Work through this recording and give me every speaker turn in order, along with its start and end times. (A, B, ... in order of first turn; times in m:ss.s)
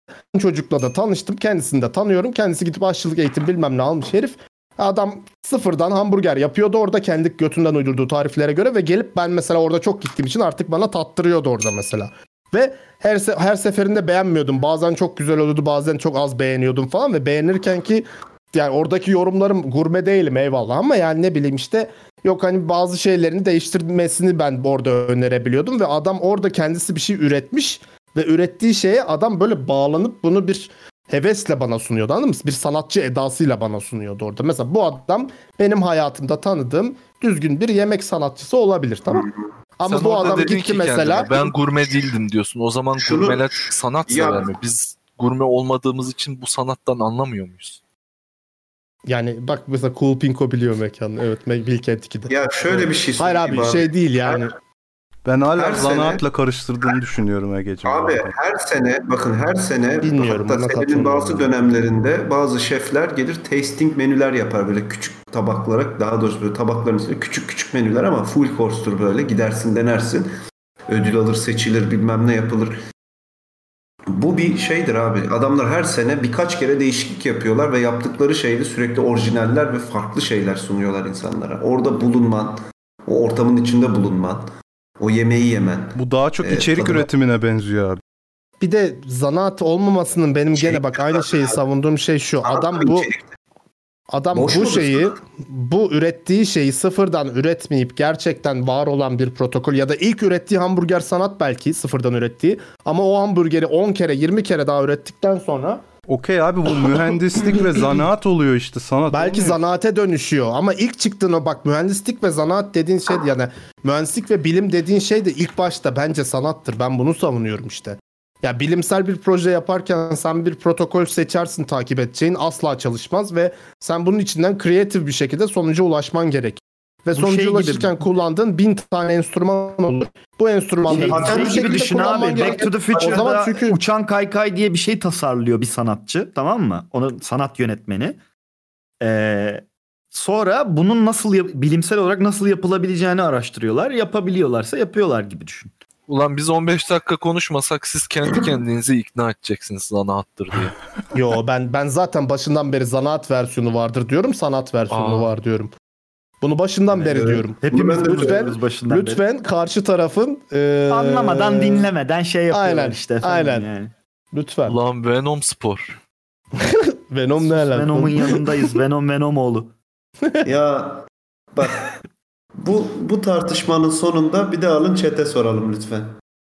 0:00.3-0:39.3 A
0:39.1-0:39.5 B
0:39.8-0:41.5 A
0:39.8-0:47.8 C
0:42.9-0:44.5 B
0:49.0-0:54.5 A
0:52.3-0:54.5 B
0:55.2-0:58.3 D
0:55.6-0:56.2 B
0:57.8-1:10.3 B
1:00.0-1:01.5 A
1:10.9-1:12.8 B
1:14.1-1:24.5 B
1:25.0-1:27.1 B
1:26.0-1:28.0 D
1:28.6-1:33.1 A
1:30.5-1:31.6 B
1:32.4-1:33.2 B
1:34.1-1:45.8 A
1:34.3-1:35.1 B
1:46.1-1:49.6 D
1:49.1-2:13.8 A
2:07.1-2:08.0 E
2:10.8-2:13.3 B
2:10.9-2:18.2 E
2:19.0-2:25.7 E
2:26.1-2:30.7 C
2:31.1-2:35.7 A
2:34.9-2:35.3 C
2:36.4-2:41.9 A
2:36.9-2:38.6 B
2:37.6-2:39.2 E
2:40.9-2:43.9 E
2:42.5-2:43.7 A
2:44.3-2:44.8 A
2:44.7-2:46.0 C
2:46.6-2:48.6 A
2:47.4-2:49.7 E
2:50.4-2:51.9 B
2:52.6-2:56.2 B